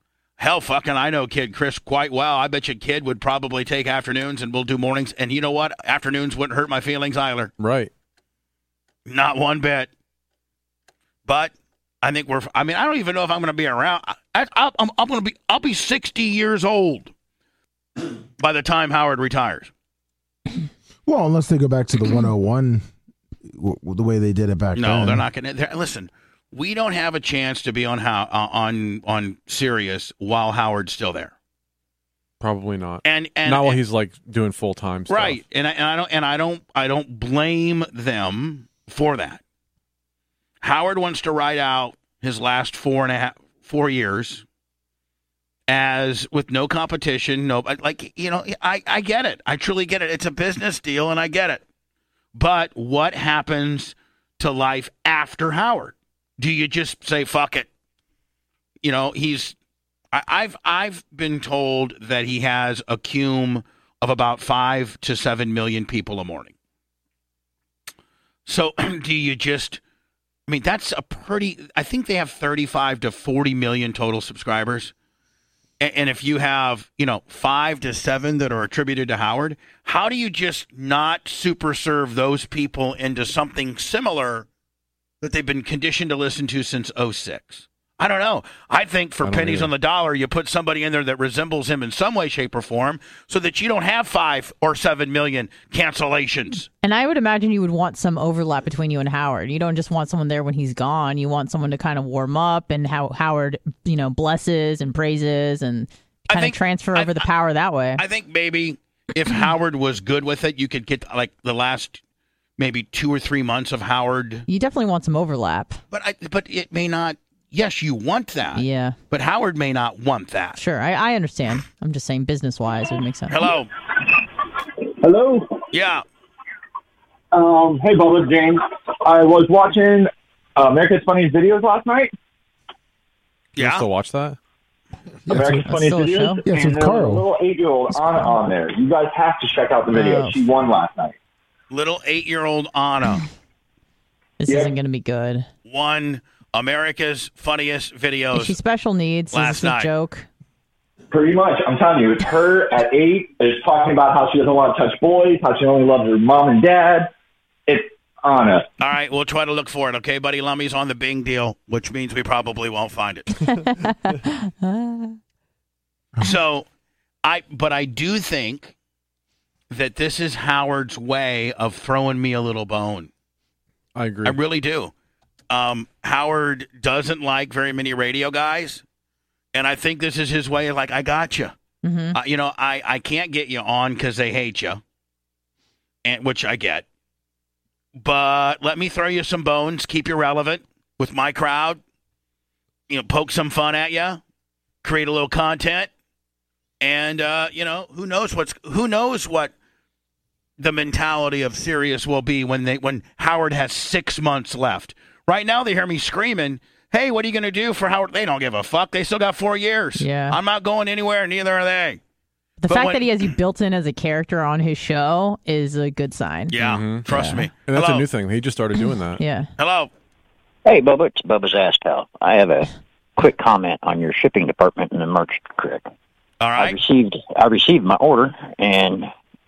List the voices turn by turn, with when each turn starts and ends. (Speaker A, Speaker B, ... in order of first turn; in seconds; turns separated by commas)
Speaker A: 0.4-7.5, Speaker B: 7.6-7.9, Speaker A: 9.1-9.9, Speaker A: 11.2-17.1, Speaker A: 18.4-19.7, Speaker C: 21.1-22.9, Speaker C: 23.4-25.2, Speaker A: 24.7-31.3, Speaker B: 32.4-35.4, Speaker A: 33.0-33.8, Speaker A: 35.1-39.4, Speaker A: 40.6-44.4, Speaker A: 45.7-51.6, Speaker A: 52.3-57.7, Speaker A: 58.8-59.5, Speaker A: 60.1-66.5, Speaker A: 68.5-69.8, Speaker A: 70.5-74.9, Speaker A: 75.8-84.5, Speaker A: 85.2-96.7, Speaker B: 89.2-89.7, Speaker D: 96.8-108.0, Speaker A: 106.3-107.3, Speaker A: 108.0-112.0, Speaker A: 112.6-114.5, Speaker D: 114.5-115.8, Speaker A: 115.9-120.6, Speaker D: 118.5-119.0, Speaker D: 120.5-123.5, Speaker A: 123.3-123.7, Speaker E: 125.0-125.5, Speaker A: 125.7-126.0, Speaker E: 127.3-132.1, Speaker A: 133.6-133.9, Speaker B: 133.6-134.4, Speaker C: 135.3-135.7, Speaker E: 135.3-141.1, Speaker D: 135.7-136.4, Speaker C: 136.4-137.3, Speaker C: 138.0-138.3, Speaker D: 139.9-140.4, Speaker A: 141.7-143.2, Speaker D: 144.4-145.5, Speaker A: 145.7-148.5, Speaker D: 148.3-150.3, Speaker A: 149.3-149.9, Speaker E: 151.1-157.1, Speaker E: 157.7-158.7, Speaker A: 158.8-163.3, Speaker D: 163.4-165.2, Speaker A: 166.2-166.7, Speaker A: 167.2-168.7, Speaker A: 169.7-173.1, Speaker B: 173.9-174.4, Speaker A: 174.2-174.9, Speaker A: 175.5-178.8, Speaker A: 179.5-181.5, Speaker D: 181.8-182.2, Speaker A: 182.1-184.8, Speaker A: 186.0-186.8, Speaker A: 187.9-191.8, Speaker A: 192.9-194.2, Speaker A: 194.8-195.9, Speaker A: 196.8-199.5, Speaker A: 200.6-212.0, Speaker D: 210.0-210.4, Speaker D: 212.6-216.6, Speaker A: 212.7-213.2, Speaker A: 216.5-218.1, Speaker B: 216.6-217.1, Speaker D: 217.1-217.4, Speaker B: 217.7-219.2, Speaker D: 218.9-219.5, Speaker A: 219.6-219.9, Speaker F: 220.6-225.8, Speaker A: 226.4-226.8, Speaker F: 226.6-229.1